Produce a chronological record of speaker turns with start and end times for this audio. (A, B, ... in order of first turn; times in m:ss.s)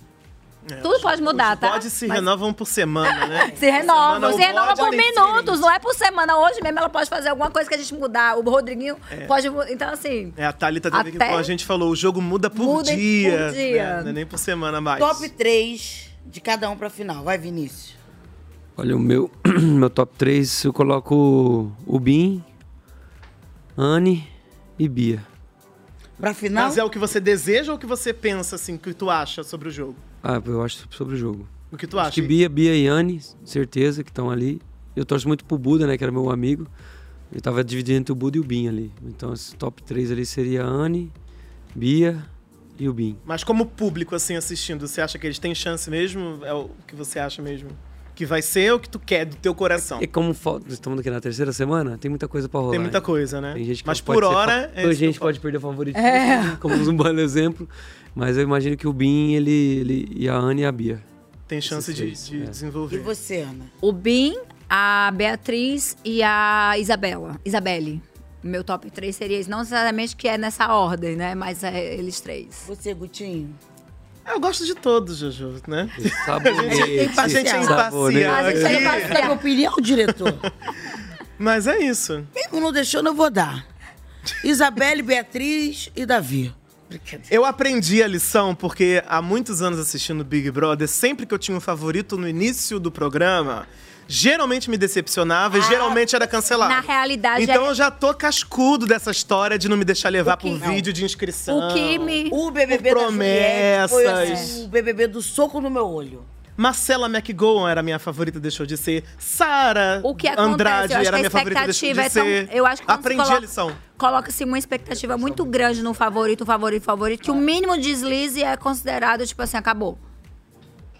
0:00.7-0:05.6 A
0:00.8-0:02.2 B
0:03.1-0:10.4 B
0:03.6-0:04.7 C
0:10.4-0:15.3 A
0:10.9-0:11.5 B
0:12.5-0:14.1 B
0:15.0-0:18.0 C
0:18.8-0:22.4 D
0:23.8-0:25.2 D
0:26.2-0:26.8 C
0:26.5-0:30.0 A
0:30.2-0:36.7 D
0:31.7-0:32.3 A
0:37.3-0:41.1 D
0:41.7-0:43.2 D
0:43.2-0:50.0 A
0:50.0-0:53.0 D
0:52.7-0:55.3 A
0:53.5-1:01.0 D
0:56.0-0:56.8 B
1:01.5-1:03.1 A
1:01.7-1:02.6 D
1:02.9-1:03.7 C
1:03.8-1:12.7 B
1:12.6-1:13.6 C
1:14.2-1:19.3 A
1:16.0-1:19.1 D
1:16.5-1:17.8 C
1:18.3-1:19.4 B
1:18.6-1:20.4 C
1:21.4-1:22.3 A
1:22.4-1:23.6 C
1:24.4-1:27.3 C
1:27.3-1:44.6 A
1:35.5-1:37.7 B
1:40.2-1:40.7 B
1:40.6-1:40.9 C
1:41.5-1:42.4 B
1:42.3-1:46.3 C
1:44.1-1:44.6 B
1:46.6-1:53.8 A
1:50.0-2:00.0 B
1:55.0-1:55.8 D